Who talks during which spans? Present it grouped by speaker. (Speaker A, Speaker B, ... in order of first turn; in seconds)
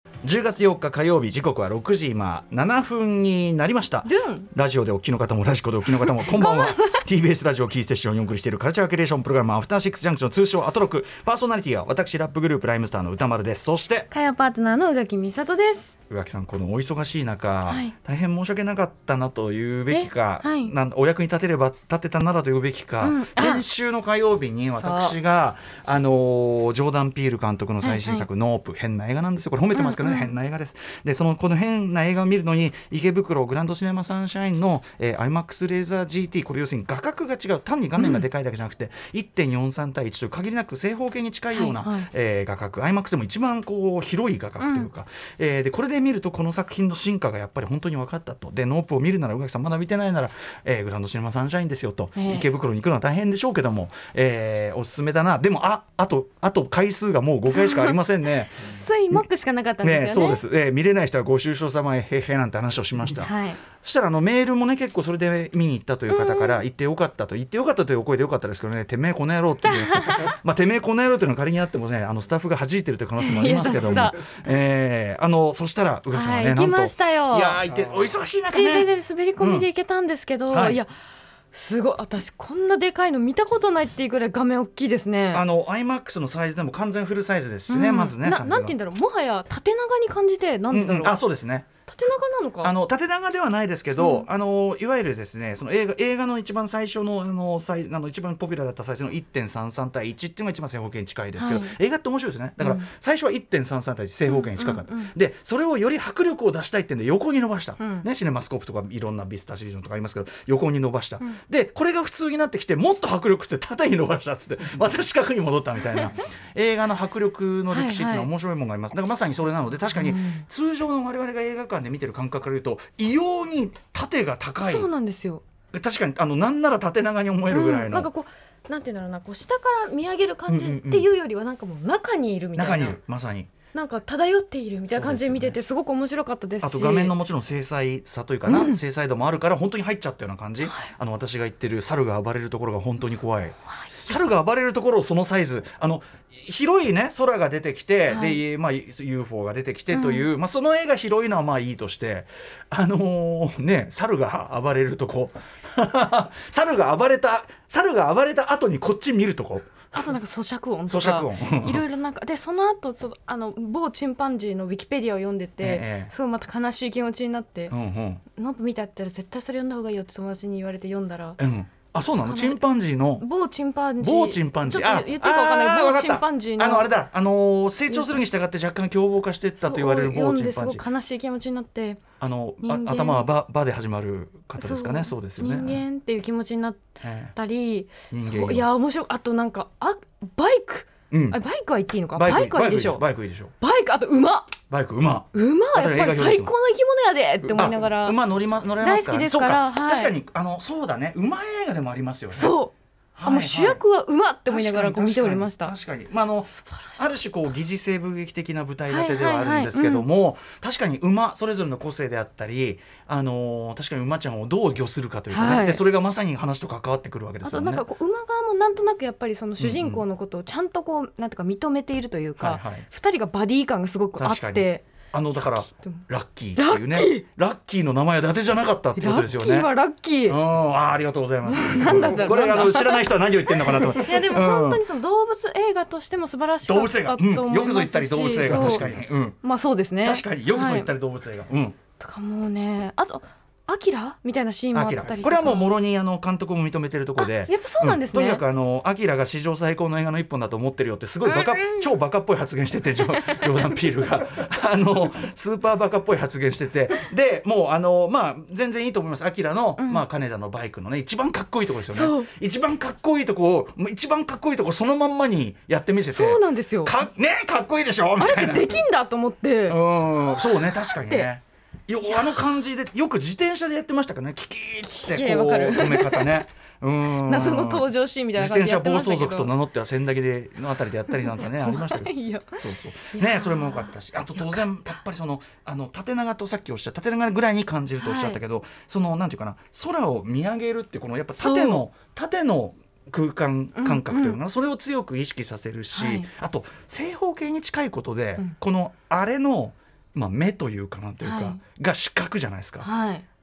Speaker A: 0.2-14.1, 16.1-58.8, 59.8-79.7, 80.5-80.8, 85.3-88.8, 90.7-91.7, 92.6-124.9, 125.7-128.1, 130.5-131.1, 132.6-133.5, 134.9-135.6, 136.6-159.9, 160.9-161.8, 165.6-166.1, 167.7-168.2, 171.4-173.2, 174.0-180.8, 182.2-185.8, 187.0-187.3, 188.1-188.7, 191.1-191.4, 192.1-193.5, 194.7-196.5, 197.4-202.6, 203.2-203.8, 204.5-217.8, 219.6-220.0, 222.4-222.8, 224.2-229.7, 230.2-234.8, 236.6-239.4, 240.0-241.8, 244.7-268.8, 269.7-302.9
Speaker B: 4.0-4.5, 6.0-7.0, 14.1-15.9, 17.7-17.9, 19.9-20.7, 23.0-23.6, 24.8-25.1, 27.8-28.3, 29.7-30.3, 38.0-38.2, 41.5-42.1, 44.6-44.9, 52.1-52.4, 57.5-58.0, 58.6-60.4, 63.1-63.6, 66.1-66.6, 69.6-70.3, 73.2-74.4, 76.1-77.6, 78.5-80.9, 81.5-85.4, 87.7-91.2, 91.9-92.7, 94.0-94.3, 101.4-101.8, 102.6-102.9, 104.3-105.1, 107.8-108.1, 117.7-118.3, 119.9-120.4, 124.6-125.4, 127.5-133.0, 133.7-137.1, 138.4-138.8, 140.6-140.9, 148.1-148.4, 149.9-150.3, 159.9-167.7, 168.3-171.4, 172.2-172.6, 173.2-176.9, 177.9-178.2, 179.6-182.0, 182.6-183.3, 184.6-193.0, 193.6-194.5, 195.3-198.2, 198.8-200.1, 202.3-202.7, 203.2-205.7, 206.6-207.0, 208.9-210.1, 215.3-215.8, 217.4-226.0, 226.6-227.2, 229.0-230.4, 231.4-240.9, 242.0-245.7, 247.2-248.4, 251.2-251.9, 252.9-253.8, 259.8-260.0, 261.9-262.3, 266.1-266.9, 268.2-271.3, 272.0-272.4, 274.9-276.4, 277.0-279.5, 281.2-282.6, 283.1-284.6, 288.0-288.4, 291.4-291.8, 293.8-294.4, 295.9-296.3, 301.2-301.6, 302.8-303.2